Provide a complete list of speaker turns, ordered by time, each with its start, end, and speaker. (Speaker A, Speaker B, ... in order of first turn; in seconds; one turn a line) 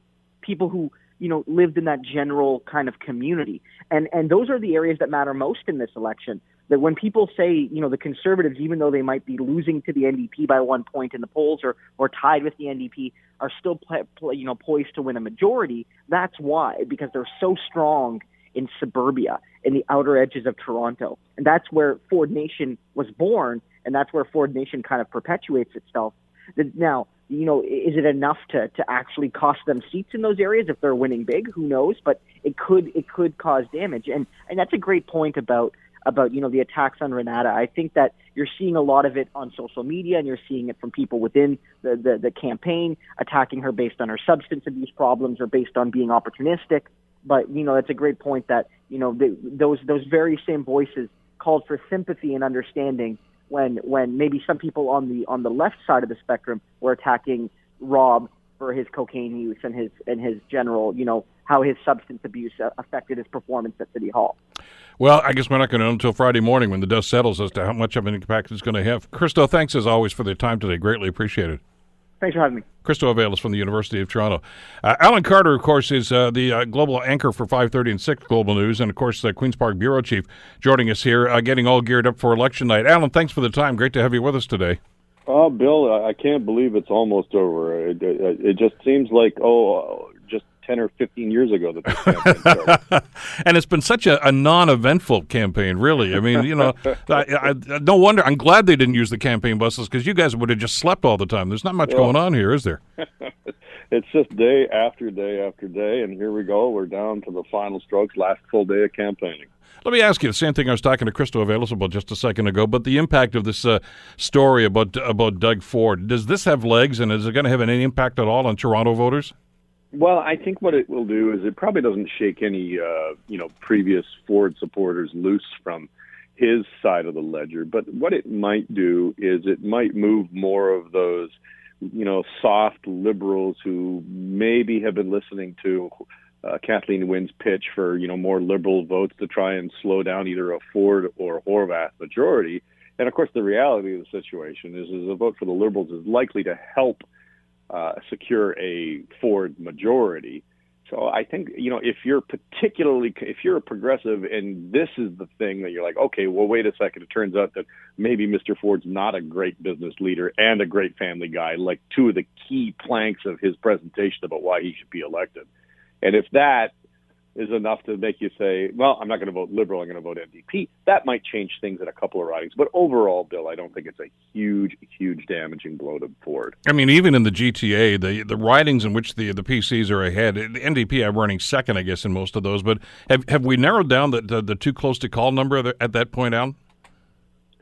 Speaker A: 0.4-64.4
Speaker B: 65.0-71.6
Speaker A: 72.2-72.6
Speaker B: 72.8-84.8
Speaker C: 85.3-92.8
Speaker B: 92.7-102.8
Speaker C: 101.9-102.1
Speaker C: 103.0-103.3
Speaker C: 103.9-109.5
Speaker B: 109.8-119.3
Speaker C: 119.9-135.9
Speaker C: 136.4-147.0
Speaker C: 147.7-165.5
Speaker C: 166.0-166.7
Speaker C: 167.4-176.6
Speaker B: 176.7-186.6